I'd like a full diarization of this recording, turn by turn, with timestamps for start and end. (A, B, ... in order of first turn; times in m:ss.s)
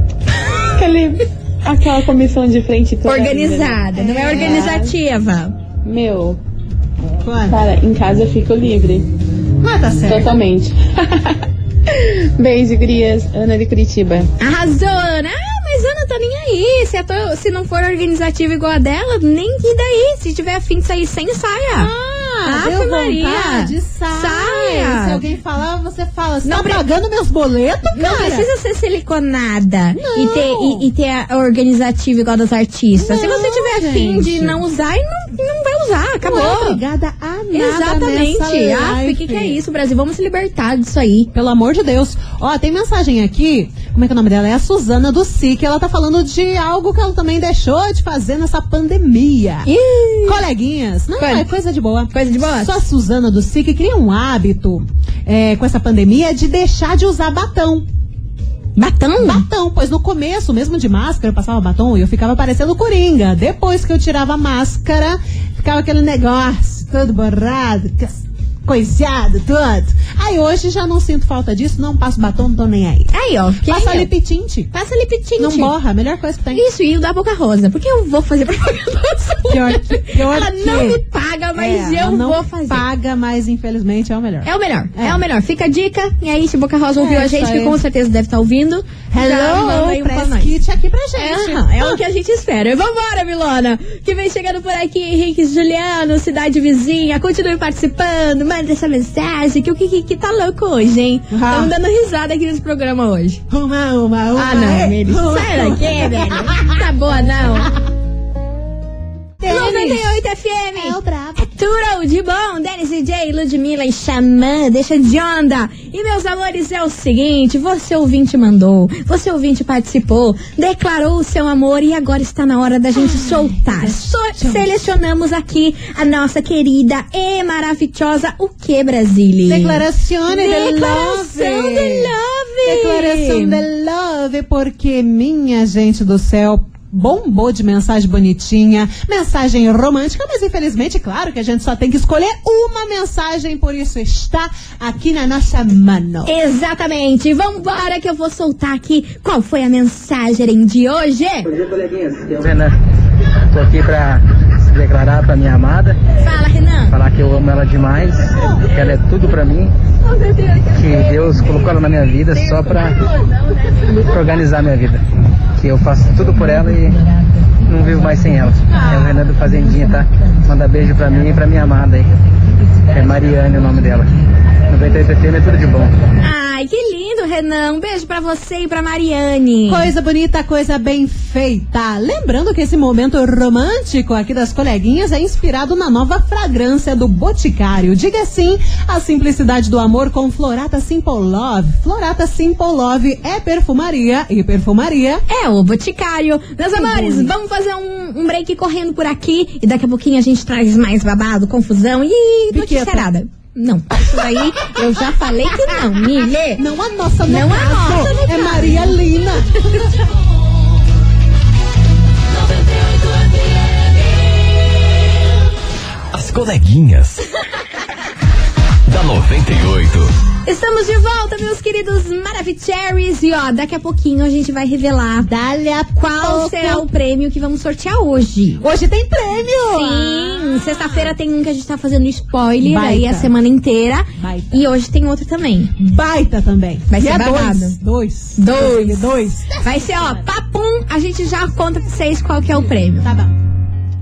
0:00.7-0:04.9 A
0:03.0-0:05.5 B
0:03.9-0:04.7 C
0:05.8-0:06.4 A
0:07.2-0:07.6 C
0:07.5-0:09.1 A
0:09.6-0:10.3 C
0:10.0-0:14.3 A
0:14.4-0:21.9 B
0:21.7-0:28.5 C
0:22.4-0:25.2 B
0:26.4-0:26.8 B
0:27.9-0:36.8 B
0:29.9-0:30.9 C
0:33.0-0:34.6 C
0:36.2-0:39.6 C
0:37.5-0:41.3 B
0:41.3-0:49.7 C
0:49.6-0:50.4 B
0:50.2-0:57.8 C
0:51.2-0:51.5 B
0:52.1-0:52.8 B
0:58.8-0:59.4 B
0:59.2-1:14.7 C
1:13.1-1:14.1 B
1:14.7-1:15.7 B
1:15.4-1:16.6 C
1:16.5-1:22.8 B
1:19.5-1:21.0 C
1:21.5-1:25.2 C
1:24.4-1:30.5 B
1:27.0-1:27.8 C
1:29.1-1:32.0 C
1:31.2-1:43.4 B
1:41.3-1:41.7 C
1:43.5-1:46.8 C
1:44.3-1:47.7 B
1:49.4-1:50.2 C
1:49.4-2:13.6 B
1:50.7-1:51.4 C
2:03.0-2:04.7 C
2:09.4-2:26.3 C
2:26.2-2:31.5 B
2:31.5-2:32.7 D
2:33.5-2:36.0 D
2:36.2-2:36.9 B
2:36.9-2:39.7 D
2:40.7-2:43.0 D
2:43.8-2:45.0 D
2:45.5-2:52.1 D
2:48.7-2:49.2 C
2:52.9-2:54.1 D
2:54.7-2:55.9 D
2:56.2-2:59.9 B
2:59.7-3:15.2 C
3:15.3-3:26.6 B
3:16.7-3:17.3 C
3:22.5-3:23.1 C
3:26.6-3:30.0 C
3:27.2-3:29.0 B
3:36.1-3:37.2 E
3:38.8-3:40.1 E
3:40.4-3:45.3 B
3:45.2-3:46.9 C
3:46.0-3:48.6 B
3:48.6-3:51.2 C
3:49.6-3:55.7 B
3:52.6-3:53.3 C
3:54.2-3:54.6 C
3:55.8-4:00.2 C
3:56.9-3:57.8 B
3:58.4-3:59.1 B
3:59.6-4:03.1 B
4:03.0-4:03.4 C